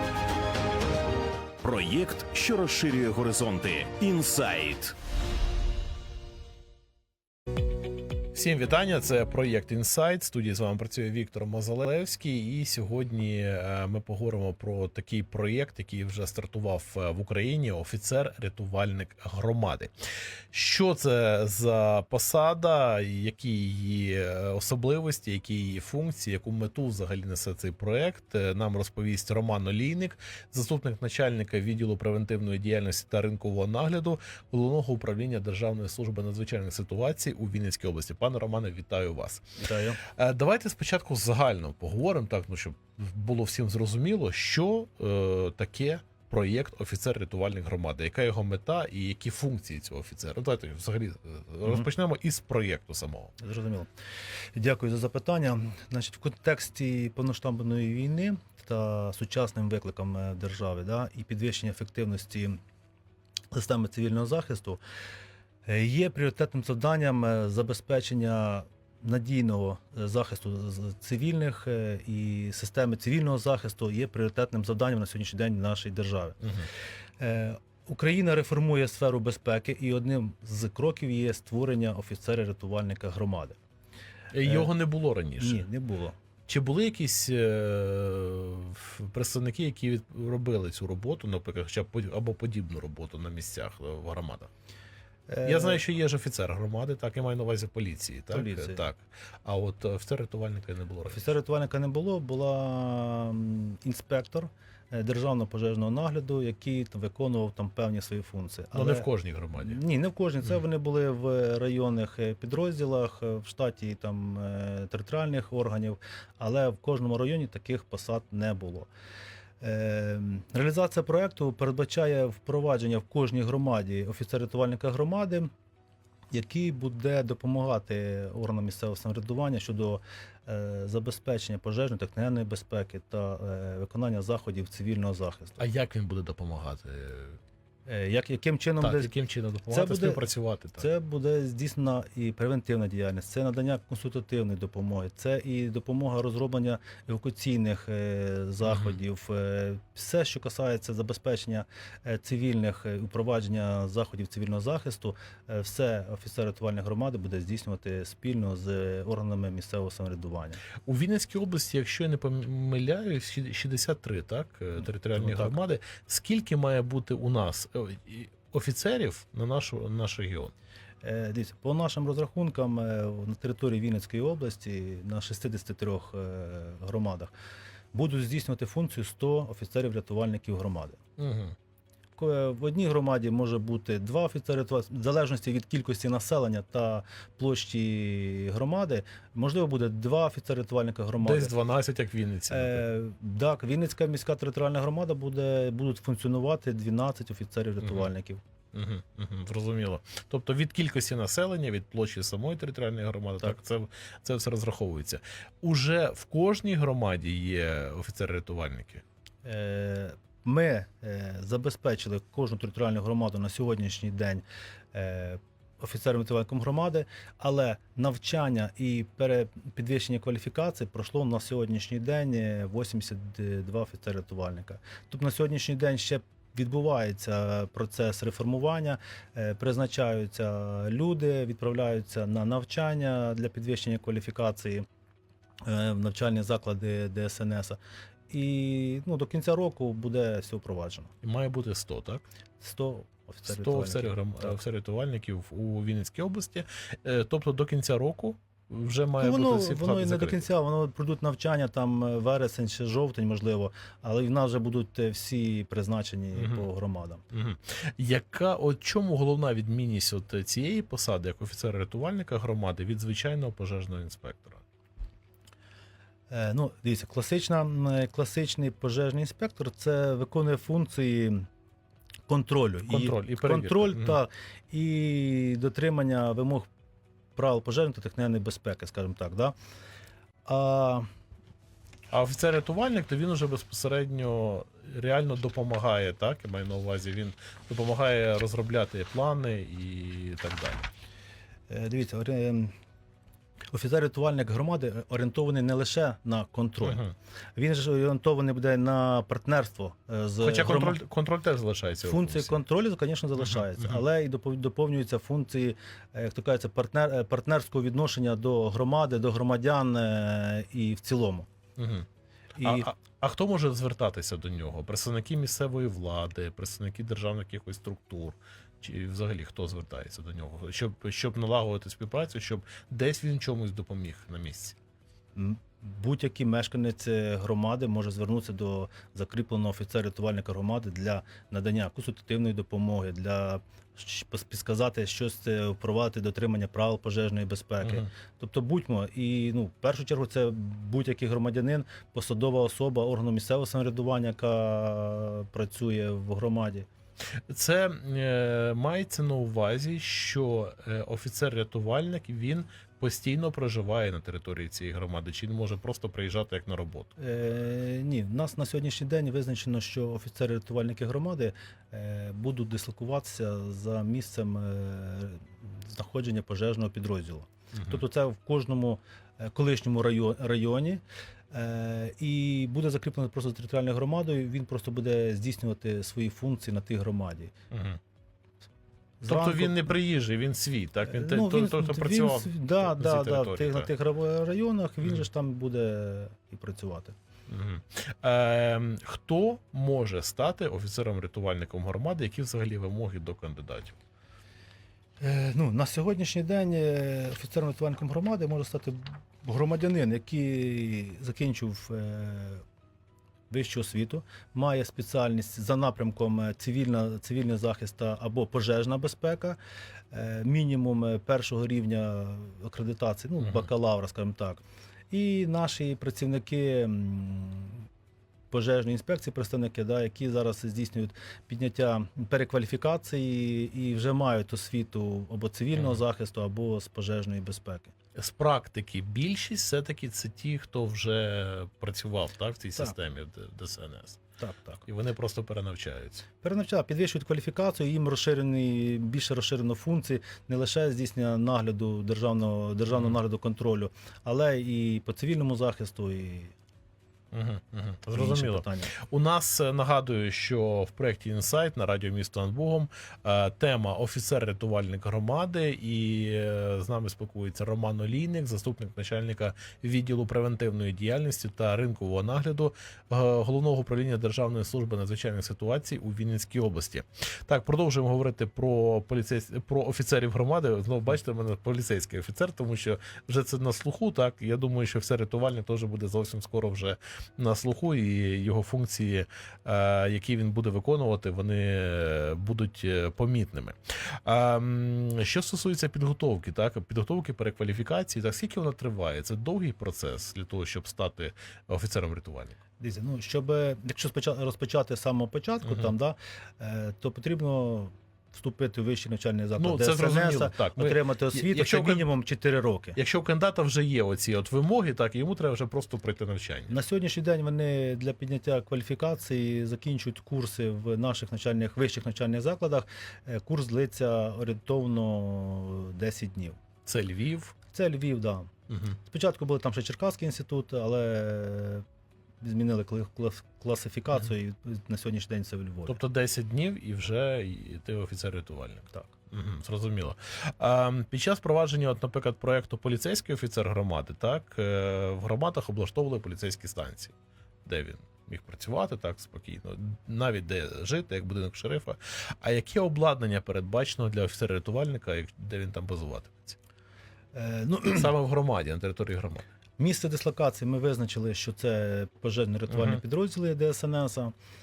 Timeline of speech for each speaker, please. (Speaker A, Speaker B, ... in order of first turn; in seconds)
Speaker A: 1.6-5.0
Speaker B: 8.3-19.9, 20.5-39.5, 40.1-53.3, 84.3-85.7, 86.5-94.5, 95.5-101.3, 108.7-109.8, 135.6-137.4, 138.8-140.9, 148.7-149.0, 160.8-170.5, 181.2-181.6, 191.2-192.9, 197.8-198.1, 198.7-209.0, 241.2-242.2, 243.4-250.5, 256.4-256.7, 257.3-264.6, 272.9-274.2, 282.1-290.9, 296.8-297.1, 300.4-302.6, 303.4-304.0, 311.8-324.8, 347.5-357.1, 367.7-368.0, 377.7-378.0, 379.3-383.9, 387.5-394.0, 425.8-426.0, 428.1-434.2, 434.8-436.2, 442.9-443.2, 447.3-492.6, 495.7-495.9, 499.6-502.1, 503.0-506.8, 516.9-517.5, 518.7-519.0, 525.9-537.1, 537.7-546.6, 547.9-549.5, 552.7-553.0
Speaker C: 39.6-40.0, 53.4-53.9, 54.5-62.6, 63.5-64.8, 65.7-76.4, 77.2-83.6, 84.4-84.7, 85.4-86.2, 95.3-95.8, 98.3-98.8, 101.1-118.9, 119.6-125.5, 126.3-135.6, 137.9-139.1, 139.7-160.6, 165.1-165.6, 171.0-177.3, 177.9-181.0, 182.2-191.6, 192.5-198.4, 209.4-234.8, 235.7-241.1, 242.6-244.6, 249.2-257.2, 266.3-271.5, 272.3-276.7, 277.4-279.6, 280.4-281.1, 291.7-292.7, 293.7-301.0, 302.0-311.5, 312.6-312.9, 325.4-346.9, 357.2-377.5, 379.2-380.0, 381.1-387.1, 395.2-402.6, 403.5-409.6, 410.1-417.8, 418.5-427.9, 434.4-434.8, 436.4-446.5, 448.1-448.9, 492.8-503.0, 506.7-516.6, 517.7-518.5, 519.1-521.8, 522.4-526.0, 547.3-548.2, 549.8-554.3